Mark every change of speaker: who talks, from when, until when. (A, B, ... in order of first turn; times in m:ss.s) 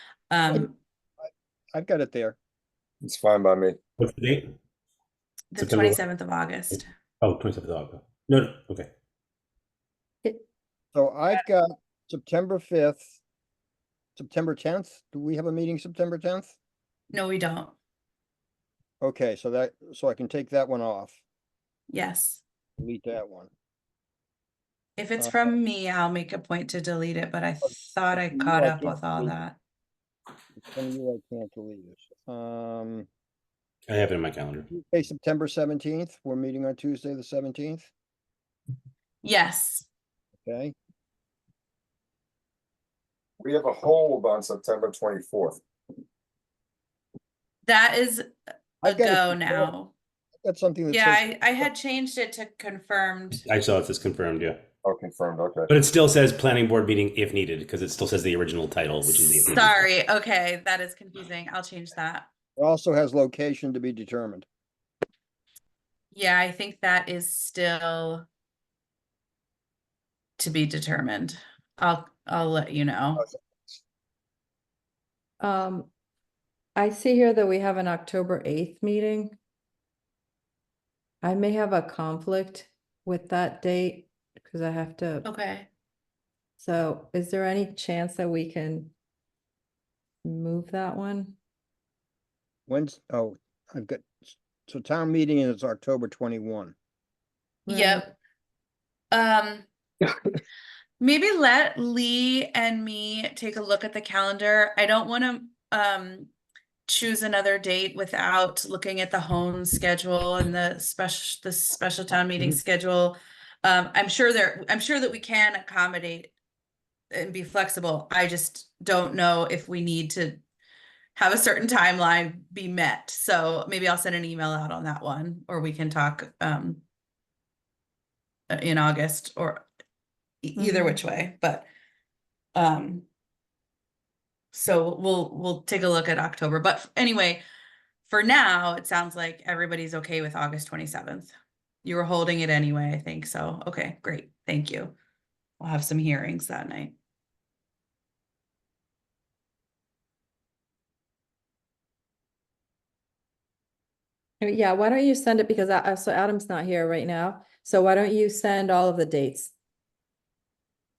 0:00.3-0:00.8 A
0:01.2-0:02.4 B
0:03.0-0:03.8 C
0:04.0-0:04.5 D
0:05.5-0:06.9 A
0:05.6-0:06.0 D
0:06.7-0:08.9 D
0:10.9-0:13.2 B
0:14.2-0:16.5 B
0:17.1-0:17.7 A
0:19.0-0:21.2 B
0:21.9-0:22.4 A
0:22.8-0:23.5 B
0:25.0-0:29.6 A
0:25.2-0:25.5 B
0:28.1-0:29.3 B
0:30.6-0:33.1 B
0:33.9-0:34.7 D
0:34.7-0:37.9 B
0:39.2-0:39.9 A
0:40.4-0:40.7 B
0:43.4-0:45.6 C
0:47.6-0:48.3 A
0:48.8-0:49.7 B
0:48.8-0:49.9 A
0:50.4-0:51.7 B
0:50.9-0:53.4 A
0:53.4-0:54.6 D
0:54.8-0:55.7 C
0:55.7-0:59.8 D
0:59.1-1:02.3 A
1:02.6-1:04.5 B
1:06.1-1:08.2 A
1:10.4-1:13.2 A
1:15.4-1:15.9 E
1:16.8-1:19.4 E
1:21.2-1:25.2 E
1:25.2-1:25.7 A
1:26.6-1:28.9 E
1:30.2-1:31.4 E
1:32.7-1:36.7 B
1:37.6-1:38.1 E
1:37.7-1:38.1 A
1:39.1-1:39.7 A
1:41.0-1:46.3 A
1:46.8-1:56.3 A
1:57.1-2:00.4 A
2:01.2-2:06.8 A
2:08.5-2:09.6 A
2:10.4-2:11.7 A
2:10.6-2:11.0 E
2:12.5-2:13.0 A
2:14.5-2:17.4 A
2:18.0-2:21.3 A
2:21.8-2:25.0 A
2:25.6-2:27.0 A
2:34.4-2:39.5 E